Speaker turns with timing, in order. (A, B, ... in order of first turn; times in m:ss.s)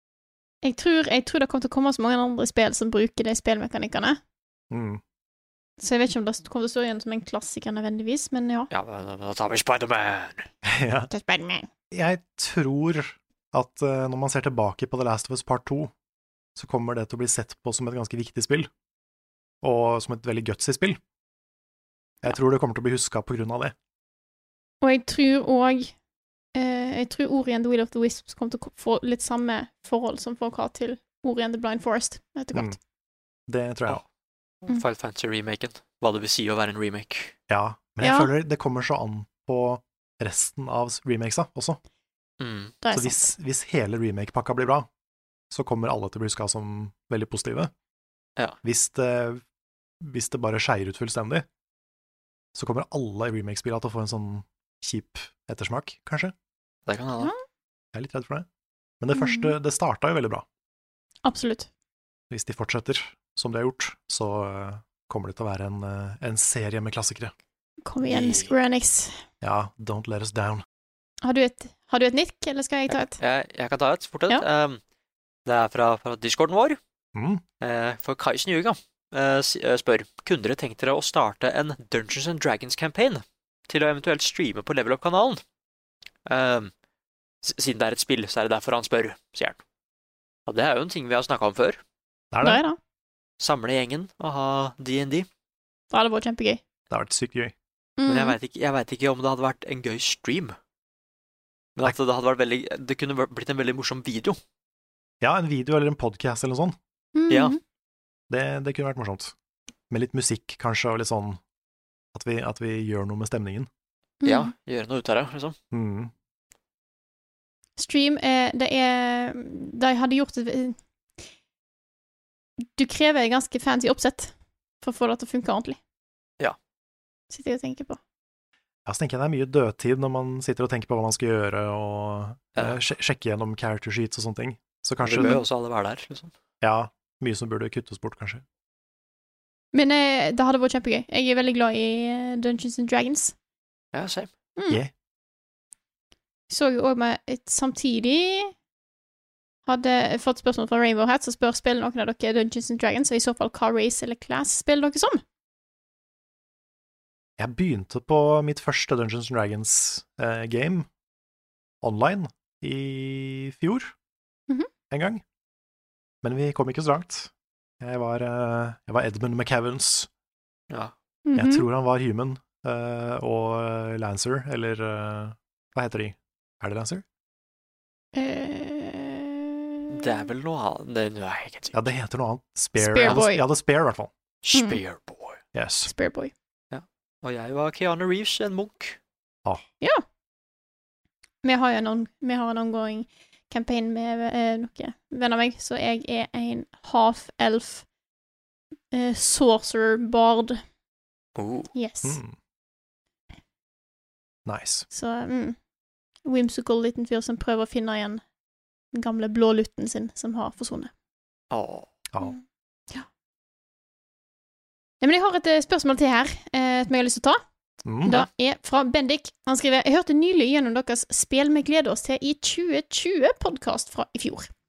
0:00.6-0:04.2 A
0:04.7-0:05.0 B
0:05.8-0:08.7 A
0:08.7-0:10.5 C
0:10.6-0:11.1 B
0:11.1-0:11.7 A
0:11.9-0:15.9 B
0:16.6-0:18.7 B
0:19.6-0:21.0 B
0:22.2-0:23.7 B
0:24.8-0:25.9 A
0:26.5-0:32.8 A
0:33.5-0:34.0 B
0:34.6-0:37.3 C
0:37.5-0:41.8 B
0:38.0-0:38.3 A
0:42.4-0:42.8 C
0:42.8-0:43.3 A
0:42.9-0:44.9 B
0:45.5-0:47.7 B
0:48.6-0:49.4 B
0:50.0-0:51.4 B
0:52.5-0:56.3 B
0:56.8-0:57.3 C
0:57.9-0:58.5 B
0:59.0-1:00.4 B
0:59.1-0:59.5 A
1:01.2-1:01.7 A
1:02.3-1:07.3 B
1:07.8-1:09.2 A
1:08.0-1:08.5 C
1:09.4-1:10.6 B
1:11.2-1:13.2 A
1:12.9-1:14.8 C
1:15.4-1:16.8 C
1:17.1-1:17.4 B
1:17.6-1:25.4 C
1:26.2-1:26.7 C
1:27.4-1:29.6 C
1:30.5-1:31.8 C
1:32.3-1:32.6 B
1:32.4-1:32.8 A
1:33.4-1:35.3 C
1:35.9-1:36.6 A
1:36.9-1:37.5 B
1:38.0-1:38.4 A
1:38.1-1:40.6 C
1:41.8-1:44.4 C
1:45.2-1:46.8 B
1:47.1-1:47.6 A
1:47.3-1:47.5 C
1:48.3-1:49.3 B
1:49.9-1:51.4 B
1:52.1-1:53.7 B
1:54.2-1:54.5 A
1:54.2-1:55.6 C
1:55.7-1:56.1 B
1:57.8-2:00.8 A
2:02.8-2:05.8 A
2:07.3-2:08.0 A
2:08.8-2:15.4 B
2:15.0-2:16.3 C
2:15.2-2:15.4 A
2:16.6-2:18.4 B
2:19.7-2:23.3 A
2:23.9-2:24.3 C
2:26.5-2:28.5 A
2:29.6-2:35.2 A
2:37.4-2:40.9 B
2:41.8-2:43.9 B
2:44.9-2:45.2 B
2:46.2-2:50.1 B
2:51.2-2:51.6 A
2:51.3-2:57.0 B
2:58.1-2:59.9 A
2:59.9-3:01.8 C
3:01.7-3:04.1 B
3:02.8-3:03.4 A
3:04.4-3:05.4 C
3:04.5-3:04.8 A
3:05.5-3:05.9 B
3:05.9-3:06.3 A
3:06.7-3:09.0 C
3:11.4-3:17.8 A
3:18.9-3:20.6 A
3:21.4-3:21.7 C
3:21.7-3:22.2 A
3:22.0-3:22.4 B
3:24.4-3:24.8 B
3:24.9-3:25.6 A
3:26.2-3:28.2 A
3:28.9-3:30.9 A
3:31.5-3:31.9 C
3:32.2-3:33.1 A
3:35.0-3:37.4 A
3:37.8-3:38.2 B
3:38.0-3:44.5 A